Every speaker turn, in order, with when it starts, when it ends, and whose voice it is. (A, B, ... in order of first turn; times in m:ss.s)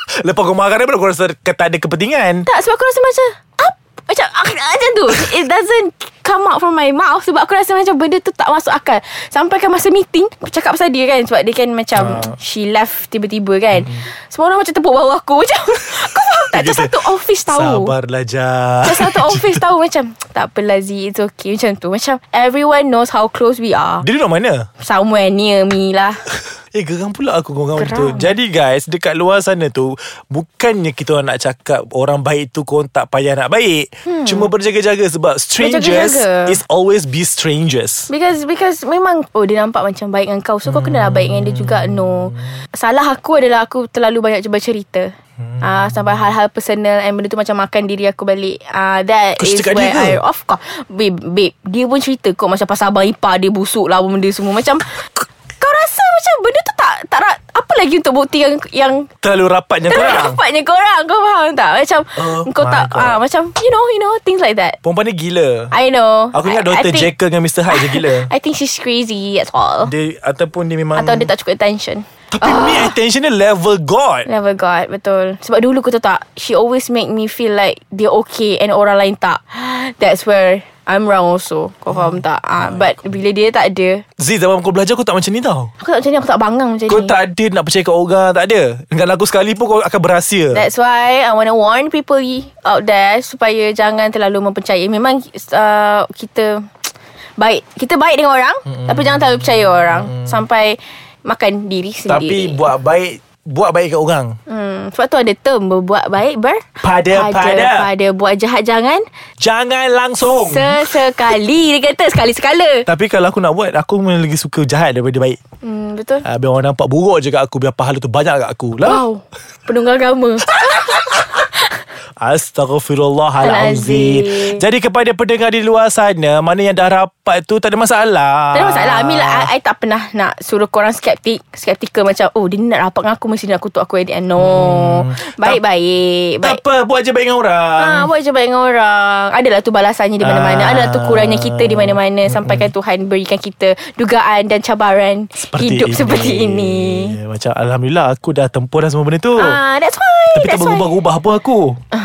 0:00.2-0:02.4 A
0:02.4-0:17.9 B
0:12.0-0:12.3 A
0:16.5-0:19.6 A
0:18.8-0:24.0 B
0:24.0-0:24.7 A
0:24.8-0:26.2 B
0:26.7-0:38.1 A
0:27.8-0:28.3 B
0:34.0-0:34.5 B
0:35.6-0:36.6 B
0:38.1-0:54.9 B
0:40.6-0:42.4 A
0:45.4-0:46.2 A
0:49.4-0:50.2 A
0:55.6-0:59.1 B
0:59.2-1:00.4 A
0:59.9-1:04.8 B
1:02.2-1:03.2 A
1:04.8-1:05.7 A
1:05.7-1:07.1 B
1:06.3-1:08.3 A
1:07.7-1:09.9 B
1:09.8-1:11.3 A
1:10.9-1:12.9 B
1:12.3-1:14.3 A
1:14.2-1:24.0 B
1:21.9-1:22.8 A
1:24.2-1:25.7 A
1:25.8-1:27.1 B
1:26.9-1:30.6 A
1:30.5-1:42.7 B
1:38.8-1:40.3 A
1:42.1-1:44.4 A
1:44.5-1:49.0 B
1:46.8-1:47.9 A
1:49.4-1:51.0 A
1:50.4-1:52.8 B
1:52.9-1:55.4 A
1:55.6-1:56.2 B
1:56.2-1:59.0 A
1:58.8-2:01.5 B
2:02.2-2:09.5 A
2:03.4-2:04.6 B
2:08.5-2:16.6 B
2:14.4-2:15.6 A
2:16.4-2:18.1 A
2:17.8-2:27.1 B
2:20.2-2:22.7 A
2:25.5-2:29.6 A
2:29.4-2:30.9 B
2:30.3-2:31.8 A